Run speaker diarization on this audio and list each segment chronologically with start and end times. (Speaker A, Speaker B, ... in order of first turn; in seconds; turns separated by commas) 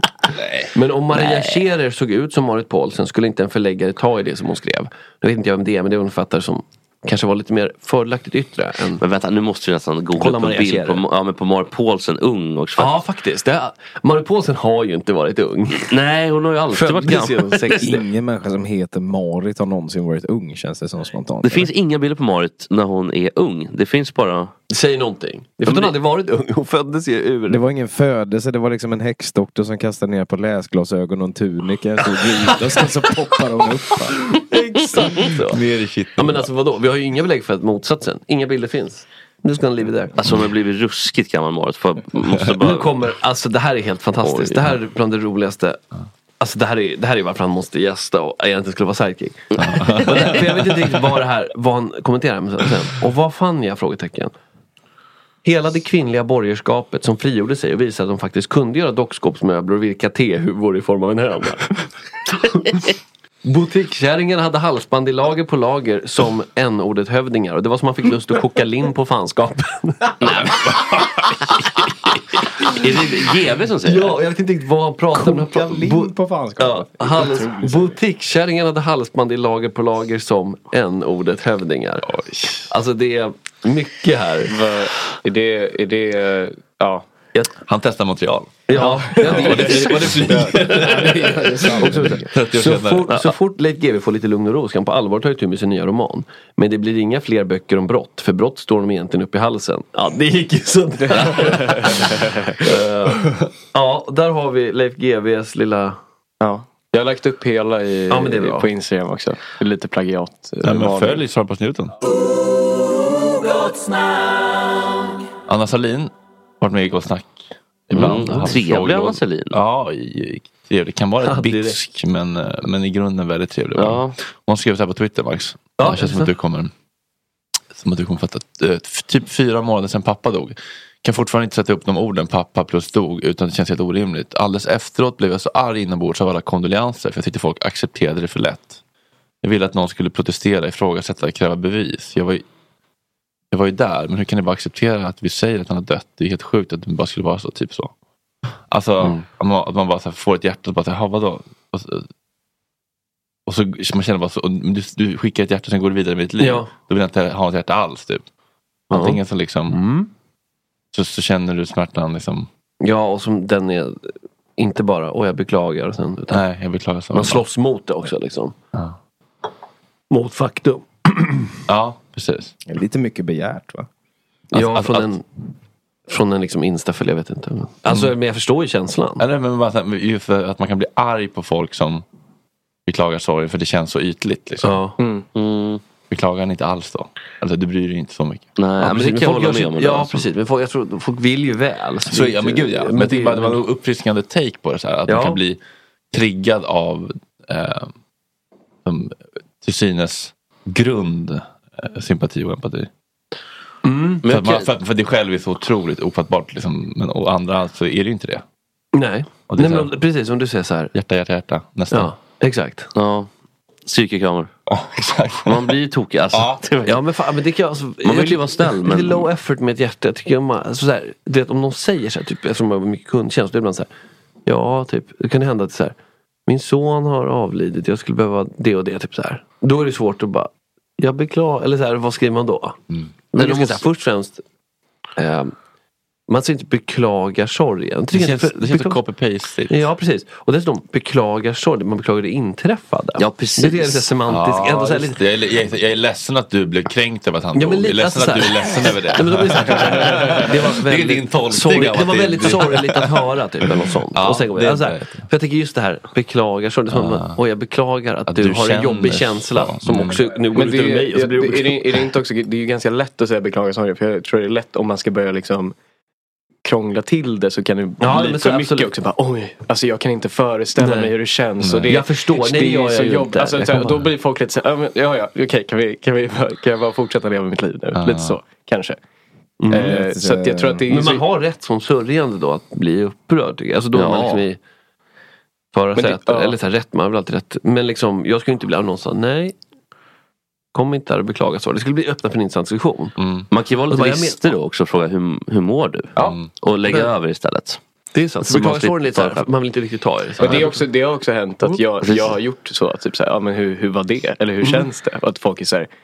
Speaker A: 0.7-9.0, Speaker B: 1.1-1.6, Speaker B: 9.0-13.0, Speaker A: 10.2-11.0, Speaker A: 12.8-15.9, Speaker B: 15.8-17.9, Speaker A: 16.7-18.0, Speaker C: 17.8-21.7, Speaker B: 21.4-24.5, Speaker A: 24.7-27.6, Speaker B: 25.6-25.9, Speaker C: 27.5-34.1, Speaker A: 34.3-35.6, Speaker D: 35.5-36.5, Speaker A: 36.2-40.1, Speaker B: 40.2-42.9, Speaker A: 42.6-45.8, Speaker B: 44.2-44.7, Speaker A: 46.4-49.5, Speaker B: 49.6-50.4, Speaker D: 49.6-50.5, Speaker A: 50.0-54.3, Speaker A: 55.4-61.7, Speaker A: 62.3-62.9, Speaker A: 63.5-70.5, Speaker B: 70.2-70.7, Speaker B: 72.7-74.2, Speaker A: 73.8-82.1, Speaker C: 75.1-78.0, Speaker A: 82.7-84.5, Speaker E: 84.5-87.1, Speaker D: 87.6-90.7, Speaker A: 88.7-106.0, Speaker E: 88.8-90.6, Speaker C: 90.8-92.3, Speaker E: 91.6-92.1, Speaker D: 92.3-93.3, Speaker E: 101.0-102.5, Speaker E: 106.4-111.2, Speaker A: 108.1-108.7, Speaker D: 110.6-111.9, Speaker D: 115.5-126.7, Speaker A: 117.9-118.6, Speaker B: 117.9-119.6, Speaker A: 121.2-121.8, Speaker B: 123.8-124.2, Speaker A: 125.8-126.3, Speaker D: 127.7-138.8, Speaker D: 139.4-142.4, Speaker D: 143.5-147.9, Speaker D: 148.7-152.1, Speaker D: 153.5-158.2, Speaker A: 156.4-156.7, Speaker D: 158.9-159.8, Speaker A: 158.9-160.1, Speaker D: 160.9-162.5, Speaker A: 162.8-166.4, Speaker D: 166.3-167.4, Speaker A: 167.1-168.6, Speaker A: 170.1-171.6, Speaker D: 171.7-172.5, Speaker C: 172.7-173.9, Speaker D: 174.5-175.1, Speaker A: 174.5-175.2, Speaker A: 176.1-179.2, Speaker D: 179.2-182.0, Speaker D: 182.9-184.8, Speaker A: 184.6-185.0, Speaker E: 185.0-185.2, Speaker B: 185.3-185.8, Speaker D: 186.1-188.4, Speaker B: 188.6-190.3, Speaker A: 188.8-193.6, Speaker D: 192.1-195.6, Speaker A: 195.1-195.4, Speaker D: 196.1-197.9, Speaker D: 198.8-202.9, Speaker A: 203.8-204.2, Speaker B: 204.2-204.7, Speaker D: 204.3-208.4, Speaker A: 208.9-210.9, Speaker D: 209.5-209.9, Speaker D: 210.9-212.1, Speaker A: 211.9-212.9, Speaker B: 212.9-213.3, Speaker B: 213.9-214.5, Speaker D: 214.7-215.7, Speaker B: 215.5-217.0, Speaker D: 216.3-216.6, Speaker A: 216.9-223.9, Speaker B: 218.0-219.3, Speaker A: 224.4-225.9, Speaker A: 226.5-232.8, Speaker A: 233.3-234.4, Speaker B: 233.4-233.8, Speaker A: 235.2-235.5, Speaker A: 236.3-239.0, Speaker D: 238.1-239.9, Speaker A: 239.7-245.2, Speaker B: 243.2-244.1, Speaker D: 244.3-253.2, Speaker A: 247.6-262.0, Speaker E: 249.8-250.3, Speaker D: 254.1-255.3, Speaker D: 256.9-257.4, Speaker D: 258.3-260.2, Speaker E: 260.5-265.8, Speaker E: 266.6-279.0, Speaker A: 268.0-268.9, Speaker A: 270.8-271.1, Speaker D: 271.6-271.9, Speaker A: 271.9-274.0, Speaker D: 277.9-278.4, Speaker A: 279.6-280.1, Speaker E: 279.7-281.2, Speaker C: 280.0-280.9, Speaker A: 280.9-284.6, Speaker B: 283.9-284.4, Speaker A: 285.7-289.6, Speaker E: 286.0-286.6, Speaker A: 290.7-293.1, Speaker D: 293.2-293.5, Speaker B: 293.5-297.8, Speaker A: 293.9-294.4, Speaker D: 296.2-296.5, Speaker A: 298.1-300.8, Speaker B: 298.4-299.5, Speaker E: 300.4-305.9, Speaker B: 302.0-302.4, Speaker A: 304.6-304.9